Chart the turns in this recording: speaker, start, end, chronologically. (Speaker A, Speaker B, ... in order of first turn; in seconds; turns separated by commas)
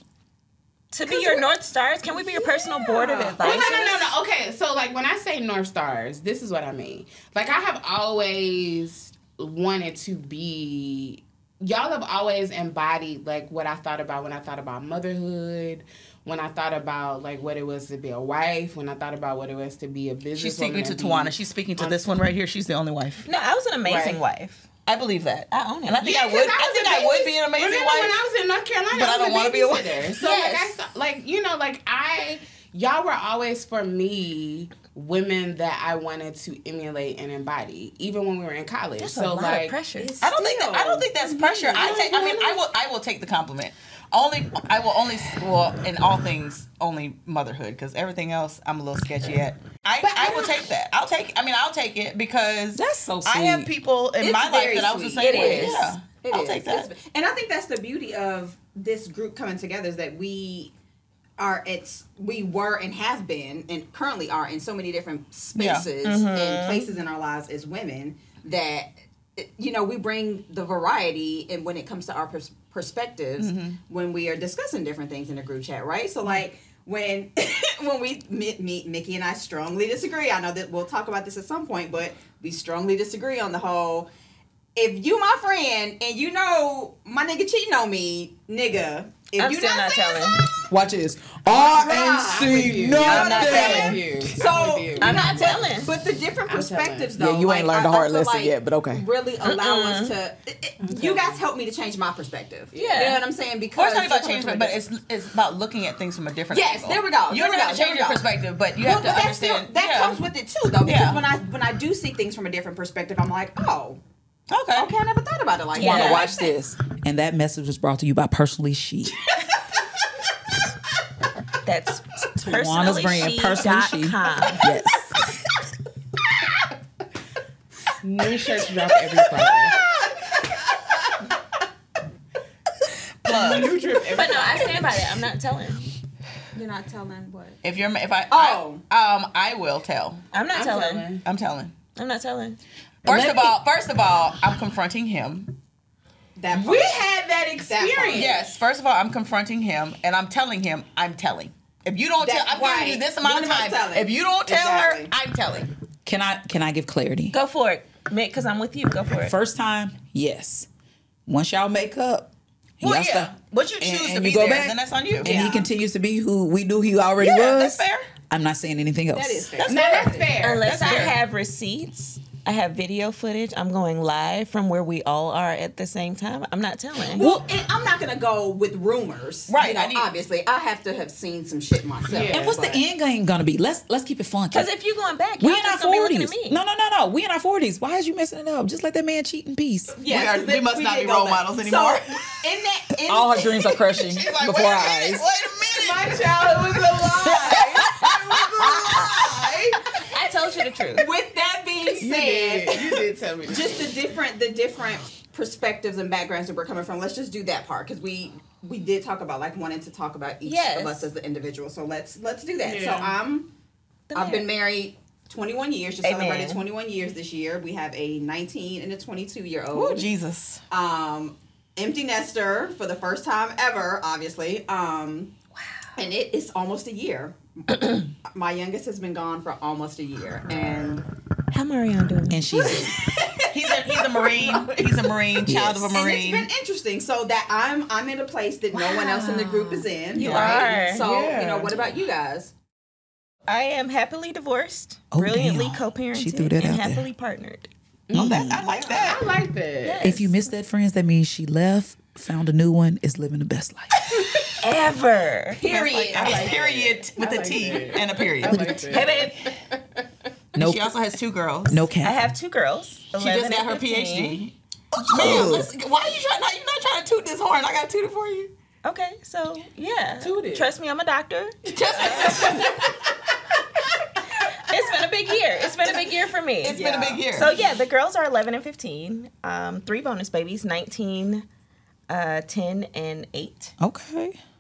Speaker A: 0.9-4.1, Speaker B: 3.0-22.1, Speaker C: 20.4-23.3, Speaker A: 23.2-24.7, Speaker D: 23.9-24.2, Speaker C: 24.9-28.2, Speaker A: 25.5-26.0, Speaker B: 26.0-39.8, Speaker C: 28.9-30.1, Speaker A: 30.2-30.8, Speaker A: 39.0-40.2, Speaker D: 40.0-42.4, Speaker C: 40.2-56.9, Speaker B: 41.8-42.6, Speaker B: 50.0-50.6, Speaker E: 52.8-53.7, Speaker D: 54.2-60.7, Speaker A: 55.2-56.0, Speaker D: 61.4-84.1, Speaker C: 65.5-65.9, Speaker A: 66.0-66.9, Speaker C: 73.4-73.8, Speaker D: 84.8-90.5, Speaker A: 89.4-90.5, Speaker E: 90.7-94.0, Speaker D: 91.5-104.8, Speaker B: 92.1-95.5, Speaker A: 93.0-94.0, Speaker C: 93.1-93.9, Speaker A: 95.0-95.9, Speaker B: 96.5-97.2, Speaker E: 97.2-99.0, Speaker A: 99.4-100.2, Speaker B: 100.8-101.4, Speaker A: 102.7-103.2, Speaker C: 103.7-110.2, Speaker D: 106.5-108.3, Speaker D: 108.8-114.0, Speaker C: 110.8-111.3, Speaker C: 114.5-114.9, Speaker D: 114.7-116.3, Speaker A: 115.7-116.5, Speaker E: 115.8-119.2, Speaker A: 121.7-124.7, Speaker E: 122.4-125.2, Speaker B: 128.0-129.8, Speaker C: 133.2-133.8, Speaker B: 133.3-134.9, Speaker A: 134.1-135.9, Speaker D: 136.7-137.2, Speaker C: 137.6-140.2, Speaker D: 138.3-138.8, Speaker A: 140.3-141.1, Speaker B: 140.5-141.2, Speaker C: 141.2-141.8, Speaker A: 142.0-142.6, Speaker E: 143.1-143.6, Speaker C: 143.1-145.5, Speaker D: 146.4-147.1, Speaker B: 146.5-148.5, Speaker D: 147.6-148.4, Speaker C: 148.1-155.7, Speaker D: 152.2-155.1, Speaker E: 156.1-157.3, Speaker A: 157.3-159.3, Speaker E: 159.2-160.7, Speaker E: 161.3-169.5, Speaker C: 162.8-165.5, Speaker D: 165.2-165.7, Speaker C: 167.2-168.1, Speaker D: 169.1-170.4, Speaker C: 169.6-171.2, Speaker B: 169.7-170.9, Speaker A: 170.4-177.3, Speaker D: 177.1-182.8, Speaker C: 179.5-180.1, Speaker B: 182.1-182.6, Speaker E: 182.3-184.7, Speaker A: 184.5-186.6, Speaker E: 185.4-190.0, Speaker D: 190.0-193.8, Speaker C: 190.1-192.4, Speaker E: 193.1-195.2, Speaker C: 194.0-196.6, Speaker B: 195.7-199.8, Speaker D: 198.4-199.8, Speaker A: 199.9-201.1, Speaker D: 200.9-213.5, Speaker B: 202.0-204.0, Speaker A: 210.4-211.1, Speaker B: 212.6-213.2, Speaker A: 214.1-214.6, Speaker D: 214.1-220.1, Speaker A: 216.0-216.6, Speaker C: 219.7-220.6, Speaker D: 220.7-225.3, Speaker D: 226.0-231.1, Speaker A: 231.5-232.4, Speaker E: 232.3-233.0, Speaker D: 232.7-234.9, Speaker C: 233.5-236.5, Speaker E: 235.5-236.0, Speaker D: 235.9-242.5, Speaker B: 238.7-239.9, Speaker A: 240.2-241.1, Speaker C: 240.2-240.7, Speaker B: 240.8-241.8, Speaker A: 243.5-247.7, Speaker E: 245.1-247.1, Speaker B: 248.1-250.1, Speaker E: 248.1-248.7, Speaker C: 248.1-249.3, Speaker A: 249.8-250.4, Speaker E: 250.0-254.3, Speaker A: 254.6-255.6, Speaker C: 255.6-258.9, Speaker D: 255.6-256.7, Speaker B: 255.6-260.0, Speaker A: 258.5-259.5, Speaker E: 260.6-260.9, Speaker C: 260.6-261.9, Speaker E: 261.7-262.2, Speaker A: 262.0-264.4, Speaker C: 263.2-268.5, Speaker E: 265.1-265.7, Speaker A: 265.2-265.5, Speaker A: 268.8-272.6, Speaker B: 270.2-270.7, Speaker C: 271.7-272.9, Speaker B: 271.9-272.9, Speaker A: 274.5-281.4, Speaker C: 276.6-277.6, Speaker D: 276.7-277.3, Speaker A: 282.1-283.8, Speaker E: 283.8-284.4